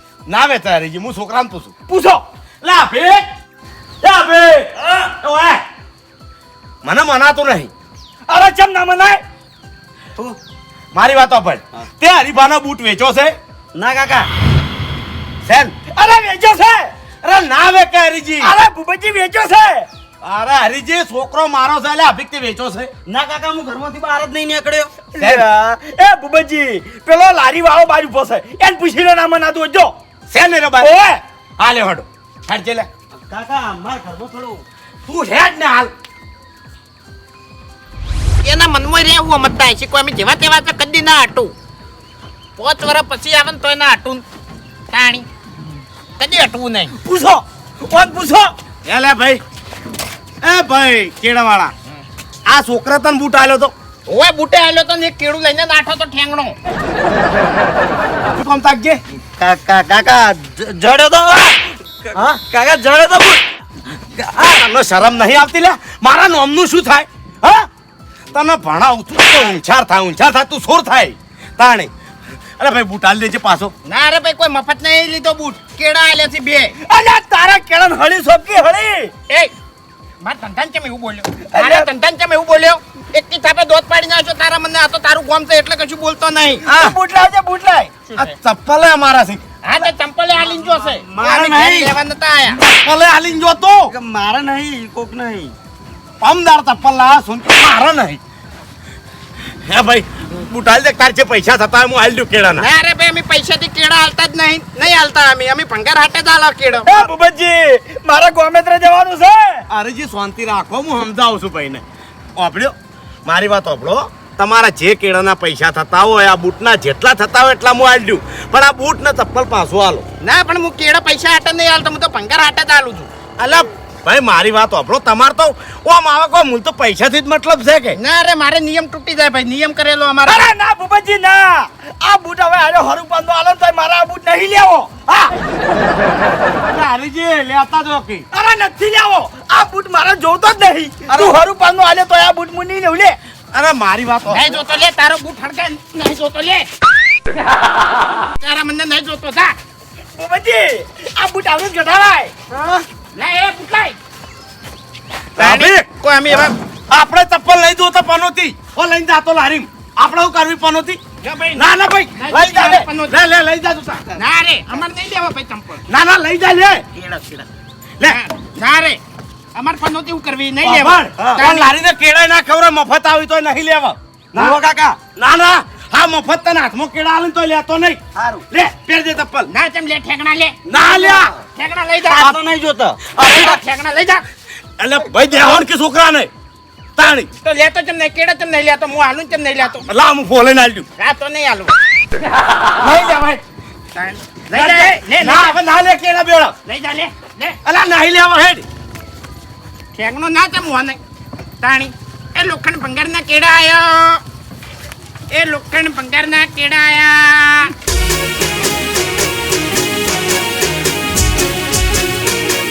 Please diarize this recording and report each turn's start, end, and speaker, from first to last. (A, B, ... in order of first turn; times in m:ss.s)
0:00.3-0:01.7 A
0:01.9-0:02.2 B
0:02.6-0:03.2 A
0:04.1-0:04.4 B
0:05.0-0:05.6 A
0:06.8-0:07.7 A
0:08.3-0:09.2 B
0:10.9-0:13.3 A
0:13.8-0:14.3 C
0:15.4-0:15.7 A
0:15.9-0:16.9 B
0:17.2-0:18.5 A
0:18.4-0:19.9 B
0:20.2-0:22.9 A
0:23.0-0:25.1 C
0:25.1-0:29.9 B
0:25.2-0:25.4 A
0:30.3-0:30.9 A
0:30.8-0:31.2 B
0:31.6-0:32.9 A
0:33.3-0:34.6 C
0:35.0-0:35.9 A
0:38.4-0:41.5 D
0:42.6-0:44.2 D
0:44.9-0:45.2 D
0:46.2-0:46.9 D
0:47.0-0:48.5 B
0:48.8-0:49.4 A
0:50.4-0:51.7 A
0:52.5-0:53.7 A
0:54.1-0:56.6 D
0:58.3-0:59.0 A
0:59.4-1:01.5 C
1:02.2-1:03.4 C
1:04.2-1:07.6 A
1:08.3-1:11.9 A
1:12.6-1:13.7 A
1:12.8-1:13.6 C
1:13.8-1:16.7 D
1:16.8-1:19.1 B
1:20.2-1:26.6 D
1:21.5-1:21.9 B
1:26.6-1:28.0 B
1:28.2-1:29.4 A
1:29.6-1:32.6 D
1:31.0-1:31.8 C
1:31.2-1:31.6 A
1:32.7-1:33.9 A
1:34.3-1:35.5 C
1:36.2-1:38.2 A
1:39.7-1:42.6 A
1:42.6-1:47.1 D
1:46.8-1:49.6 B
1:49.7-1:51.8 A
1:52.4-1:52.7 A
1:53.2-2:00.0 A
2:00.2-2:03.1 D
2:03.4-2:07.9 A
2:08.0-2:10.5 D
2:10.2-2:15.3 B
2:16.7-2:18.2 A
2:18.3-2:23.2 B
2:23.5-2:24.4 A
2:24.3-2:26.7 D
2:28.4-2:29.5 D
2:30.2-2:32.3 B
2:33.1-2:34.0 D
2:35.4-2:35.8 A
2:35.4-2:36.5 D
2:36.9-2:41.0 A
2:41.2-2:43.2 D
2:41.6-2:44.1 A
2:44.2-2:45.8 D
2:45.9-2:46.8 A
2:47.0-2:47.4 D
2:48.0-2:49.0 D
2:49.6-2:51.7 D
2:50.7-2:59.5 A
2:54.4-2:55.1 C
2:58.2-2:58.4 C
2:59.5-3:02.4 D
3:00.7-3:01.3 A
3:00.8-3:01.1 C
3:02.1-3:03.1 C
3:03.1-3:03.5 A
3:03.2-3:04.2 D
3:04.8-3:06.3 A
3:07.0-3:07.3 A
3:07.4-3:09.8 D
3:09.9-3:10.9 A
3:11.0-3:11.7 D
3:12.8-3:13.4 D
3:13.9-3:15.6 D
3:14.5-3:16.5 A
3:16.6-3:17.6 D
3:17.6-3:18.6 A
3:19.9-3:21.0 D
3:21.6-3:24.2 D
3:25.3-3:27.7 D